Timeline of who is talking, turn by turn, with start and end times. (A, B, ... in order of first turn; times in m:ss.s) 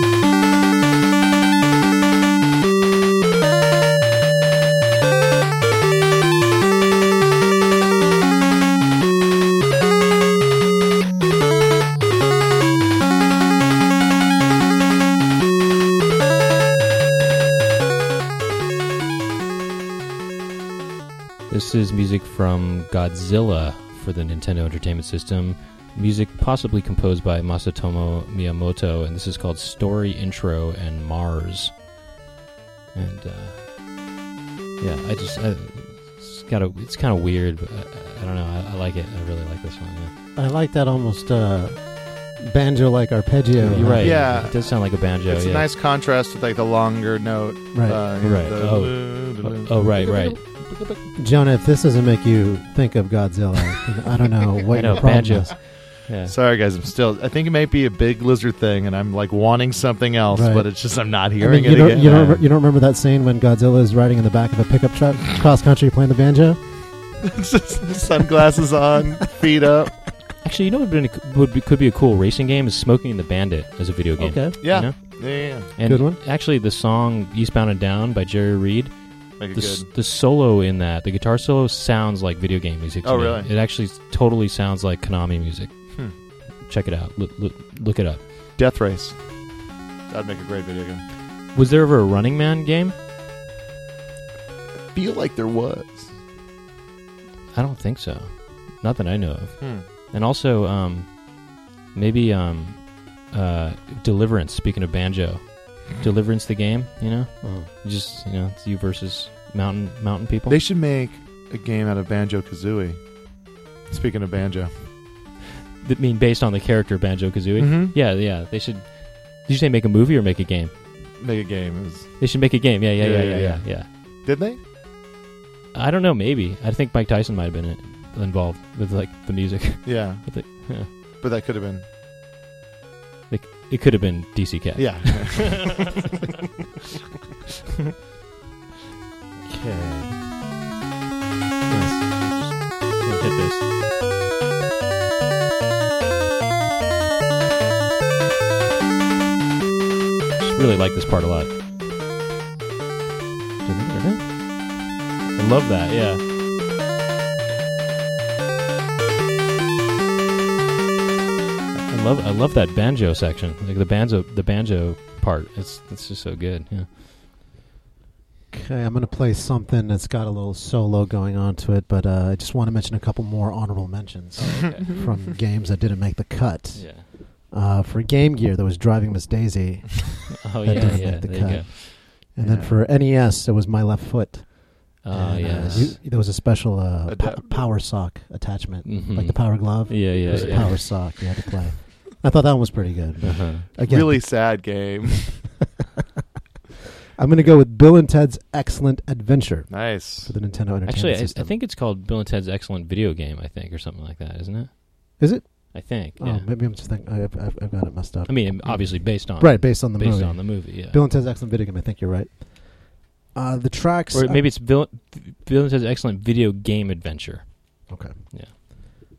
0:21.5-0:31.8 A
0:32.9-0:33.6 A
0:34.8-0:40.1 A
0:40.4-0:44.3 B
0:43.6-0:45.7 A
0:43.7-0:51.0 C
0:47.7-0:48.0 B
0:48.2-0:50.4 A
0:51.1-0:55.5 B
0:54.7-0:56.3 A
0:54.8-1:02.4 C
1:00.3-1:07.1 B
1:07.3-1:10.1 C
1:10.4-1:28.2 A
1:14.2-1:14.6 B
1:14.6-1:15.7 C
1:15.8-1:16.2 B
1:19.4-1:19.9 C
1:23.0-1:23.5 C
1:28.6-1:29.6 C
1:30.1-1:31.0 C
1:31.5-1:32.9 A
1:34.9-1:36.2 C
1:37.5-1:41.3 A
1:39.6-1:39.9 C
1:41.9-1:50.6 A
1:47.4-1:47.7 B
1:50.5-1:54.7 C
1:55.8-2:00.8 A
1:57.6-1:58.0 C
2:01.2-2:04.6 C
2:02.2-2:03.9 A
2:05.7-2:10.9 A
2:09.8-2:11.8 C
2:13.3-2:15.6 A
2:14.8-2:15.9 C
2:19.4-2:20.3 B
2:21.7-2:23.6 A
2:30.4-2:31.5 A
2:33.6-2:34.2 B
2:35.3-2:36.2 A
2:41.8-2:46.9 A
2:48.5-3:14.3 B
2:54.4-2:54.9 A
2:54.4-2:55.1 C
2:56.7-2:57.1 A
3:00.4-3:01.7 A
3:00.8-3:01.0 C
3:02.4-3:02.8 C
3:05.0-3:06.0 A
3:05.6-3:05.9 C
3:07.0-3:07.8 C
3:08.8-3:11.1 A
3:10.2-3:10.8 C
3:13.2-3:13.6 A
3:13.8-3:15.6 C
3:17.2-3:21.6 B
3:19.7-3:20.3 C
3:20.8-3:26.5 A
3:25.2-3:34.5 B
3:28.3-3:31.0 A
3:34.1-3:38.5 A
3:37.9-3:38.7 B